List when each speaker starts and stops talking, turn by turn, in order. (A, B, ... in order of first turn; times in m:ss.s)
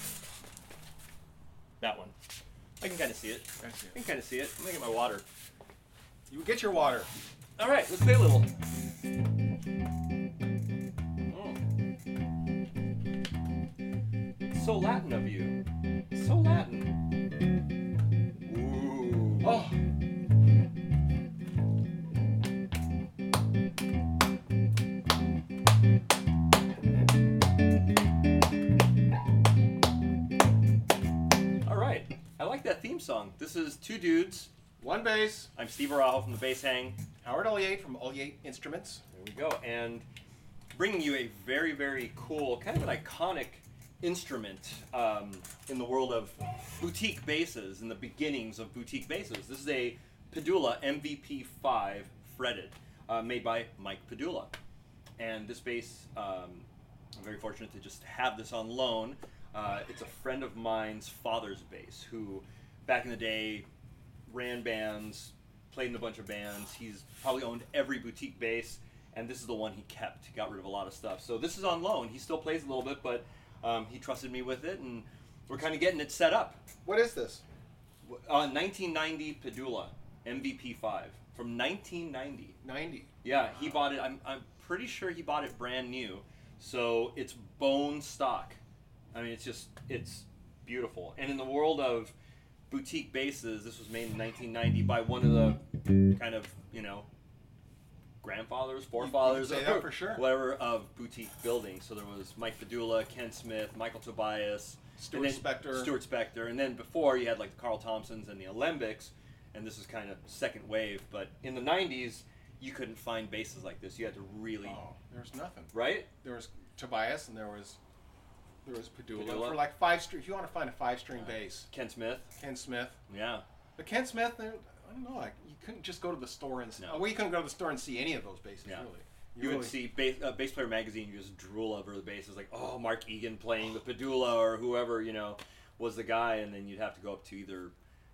0:01.8-0:02.1 A
0:02.8-0:05.2 A
0:03.6-0:04.0 B
0:06.3-0:07.1 B
0:07.6-0:08.5 A
0:11.3-0:11.6 A
0:14.5-0:15.6 A
0:16.1-0:17.0 A
0:18.4-0:19.7 A
0:19.4-0:19.7 B
0:31.6-0:34.5 A
0:34.8-0:35.5 B
0:35.6-0:37.0 A
0:37.2-0:39.0 B
0:39.1-0:40.0 A
0:40.7-0:54.5 A
0:55.2-1:03.6 A
1:04.3-1:16.6 A
1:16.8-1:17.4 B
1:18.0-1:22.6 A
1:22.6-1:23.1 B
1:23.2-1:28.6 A
1:29.1-1:32.1 A
1:32.7-1:37.1 A
1:38.2-1:54.8 A
1:39.0-1:40.2 B
1:45.0-1:45.9 B
1:54.6-1:57.8 B
1:55.7-1:56.1 A
1:58.6-2:01.7 B
1:59.1-1:59.6 A
2:01.2-2:02.3 A
2:02.4-2:03.0 B
2:03.1-2:03.4 A
2:03.8-2:09.8 B
2:06.8-2:07.0 A
2:08.6-2:17.7 A